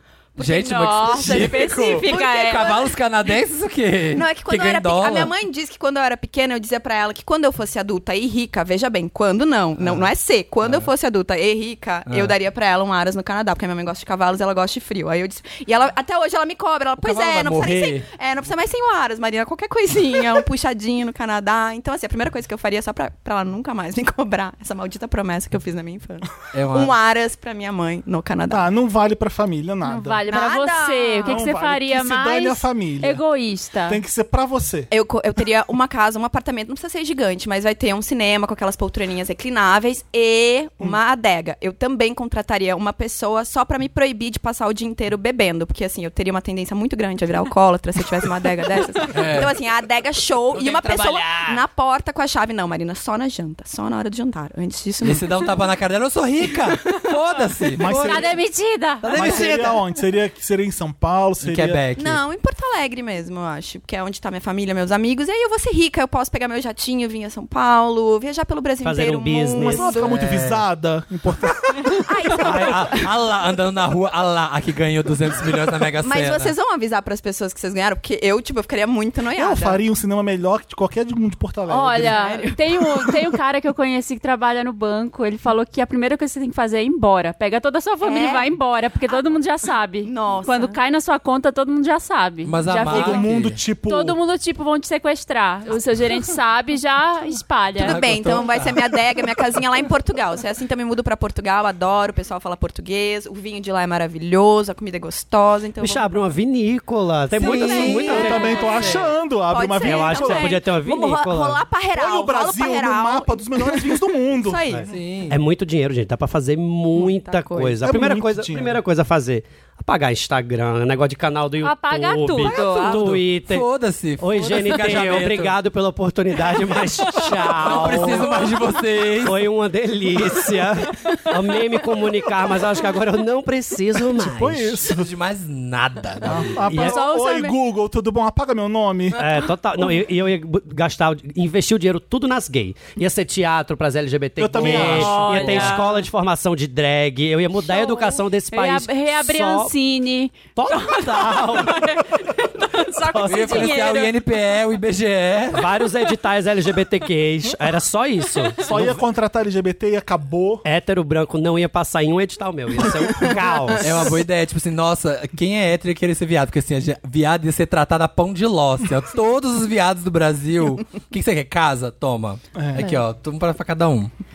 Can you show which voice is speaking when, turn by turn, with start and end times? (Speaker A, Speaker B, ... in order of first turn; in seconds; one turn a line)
Speaker A: 0.4-5.3
Speaker B: 0.4-2.9
Speaker C: 0.4-2.8
Speaker B: 4.1-28.7
Speaker A: 9.8-10.1
Speaker A: 10.6-10.9
Speaker A: 12.1-12.3
Speaker A: 17.0-18.1
Speaker A: 26.5-27.0
Speaker D: 28.5-30.3
Speaker C: 29.8-34.0
Speaker B: 30.3-31.4
Speaker D: 31.2-33.2
Speaker D: 33.9-34.9
Speaker B: 34.9-55.6
Speaker A: 49.1-49.5
Speaker A: 50.5-51.6
Speaker A: 55.0-58.3
Speaker D: 57.8-58.4
Speaker C: 57.8-59.5
Speaker A: 59.0-59.8
Speaker D: 59.1-61.8
Speaker A: 61.4-62.2
Speaker B: 62.0-70.2
Speaker E: 68.8-70.0
Speaker D: 69.6-72.0
Speaker A: 70.0-70.6
Speaker B: 71.9-73.1
Speaker A: 72.3-76.5
Speaker B: 76.0-79.8
Speaker D: 79.3-82.2
Speaker C: 81.7-98.0
Speaker B: 82.0-83.3
Speaker B: 88.0-88.5
Speaker B: 89.1-89.4
Speaker B: 90.0-90.8
Speaker A: 92.5-93.6
Speaker D: 92.8-94.2
Speaker A: 97.8-98.9
Speaker B: 97.8-106.3
Speaker E: 105.8-108.6
Speaker A: 107.3-109.0
Speaker B: 107.4-114.9
Speaker D: 107.7-110.6
Speaker E: 109.8-111.6
Speaker D: 111.9-114.7
Speaker E: 114.7-123.7
Speaker A: 114.9-115.4
Speaker B: 116.9-117.9
Speaker D: 117.8-118.8
Speaker C: 121.6-123.2
Speaker A: 122.8-125.5
Speaker E: 124.2-128.4
Speaker C: 127.2-127.5
Speaker A: 127.5-129.5
Speaker E: 129.2-134.8
Speaker D: 134.2-135.1
Speaker A: 134.9-136.7
Speaker D: 136.2-139.2
Speaker E: 136.7-137.0
Speaker C: 136.8-137.6
Speaker E: 139.2-149.7
Speaker D: 144.4-145.7
Speaker A: 144.6-145.8
Speaker C: 144.6-146.0
Speaker C: 147.7-154.2
Speaker E: 150.6-151.8
Speaker E: 153.1-153.8
Speaker A: 153.2-155.7
Speaker E: 155.5-159.0
Speaker D: 158.6-160.6
Speaker E: 160.7-164.1
Speaker B: 163.2-164.1
Speaker A: 163.8-174.1
Speaker D: 172.5-173.0